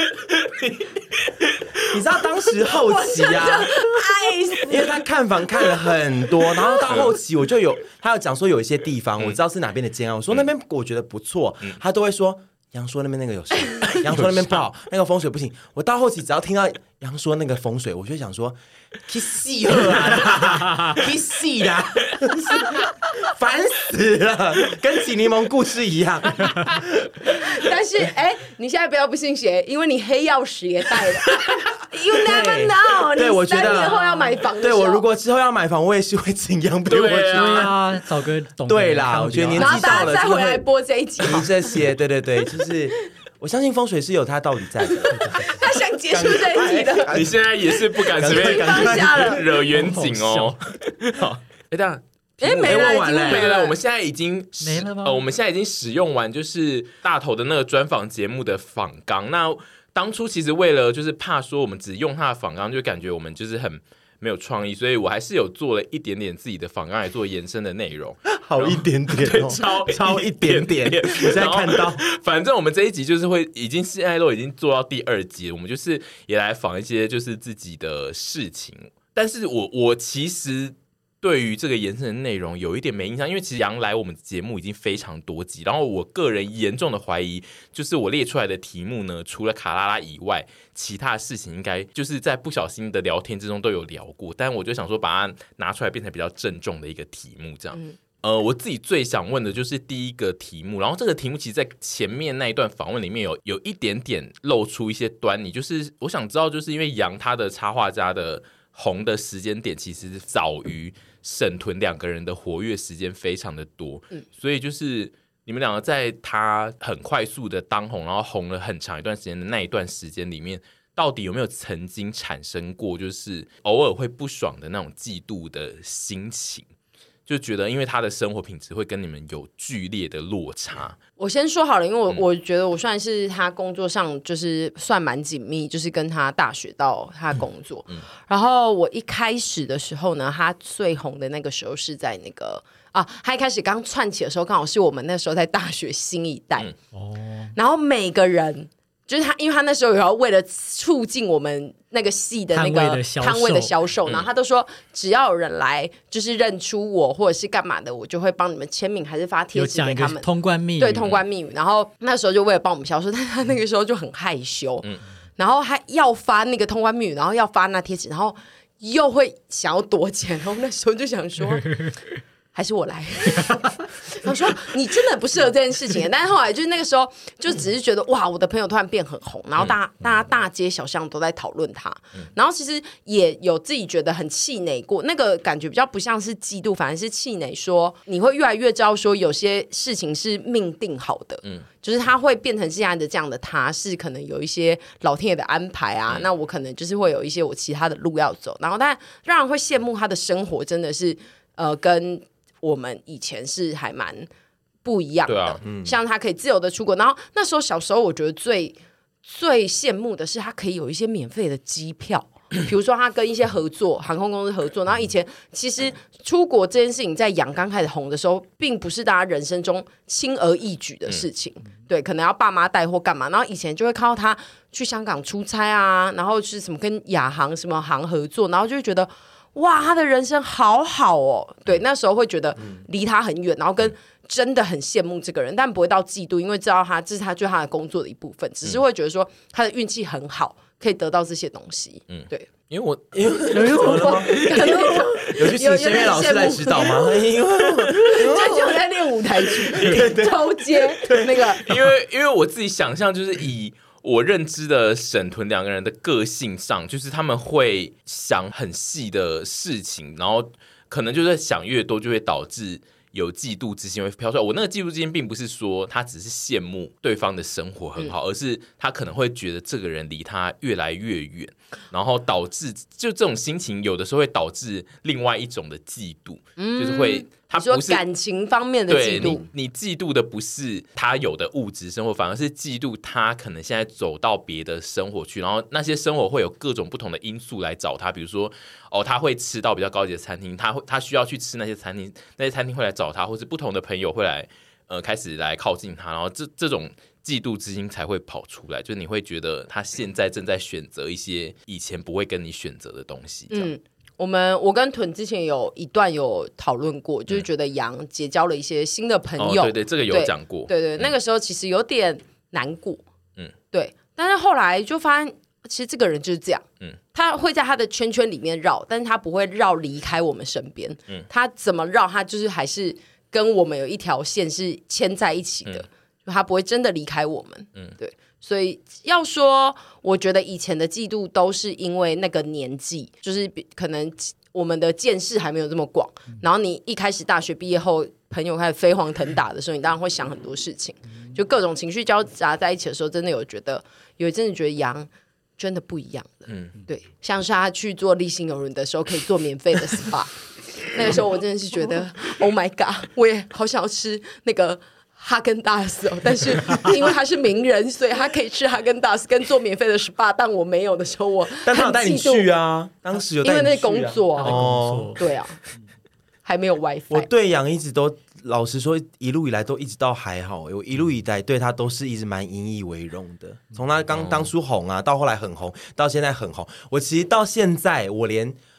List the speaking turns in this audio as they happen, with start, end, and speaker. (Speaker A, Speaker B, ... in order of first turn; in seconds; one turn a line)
Speaker A: 0.4-0.9
Speaker B: 1.9-3.9
Speaker C: 2.7-4.9
Speaker B: 4.6-18.6
Speaker C: 6.6-6.9
Speaker A: 6.9-7.2
Speaker A: 13.9-14.4
Speaker B: 19.1-27.1
Speaker C: 27.3-35.0
Speaker B: 32.2-34.0
Speaker A: 33.6-33.9
Speaker B: 34.6-37.8
Speaker A: 36.9-37.7
Speaker D: 37.3-40.1
Speaker B: 38.7-40.6
Speaker C: 39.6-41.7
Speaker B: 41.2-47.5
Speaker C: 44.9-47.2
Speaker D: 45.1-45.5
Speaker A: 47.1-126.7
Speaker C: 48.0-49.5
Speaker B: 48.1-49.4
Speaker D: 49.7-50.6
Speaker C: 52.4-53.8
Speaker B: 52.6-53.5
Speaker D: 54.6-55.3
Speaker B: 68.3-72.0
Speaker A: 127.3-131.0
Speaker C: 131.2-146.7
Speaker D: 146.9-147.6
Speaker C: 147.6-160.3
Speaker D: 152.5-153.7
Speaker D: 159.5-161.1
Speaker C: 160.8-164.9
Speaker A: 161.0-161.2
Speaker C: 165.4-171.9
Speaker C: 172.5-204.3
Speaker C: 204.8-242.5
Speaker A: 205.3-205.6
Speaker B: 205.6-206.0
Speaker A: 242.1-245.3
Speaker B: 243.1-244.7
Speaker C: 243.5-247.3
Speaker D: 243.5-244.5
Speaker B: 245.3-248.8
Speaker A: 247.9-248.4
Speaker C: 247.9-251.7
Speaker B: 249.6-251.5
Speaker A: 251.7-278.0
Speaker C: 276.6-279.5
Speaker A: 278.9-303.7
Speaker C: 303.5-313.0
Speaker A: 309.4-311.1
Speaker C: 313.7-362.5
Speaker A: 346.5-346.8
Speaker B: 361.6-365.3
Speaker C: 363.4-365.6
Speaker D: 364.4-365.2
Speaker C: 366.4-367.3
Speaker B: 367.1-378.6
Speaker A: 374.1-374.5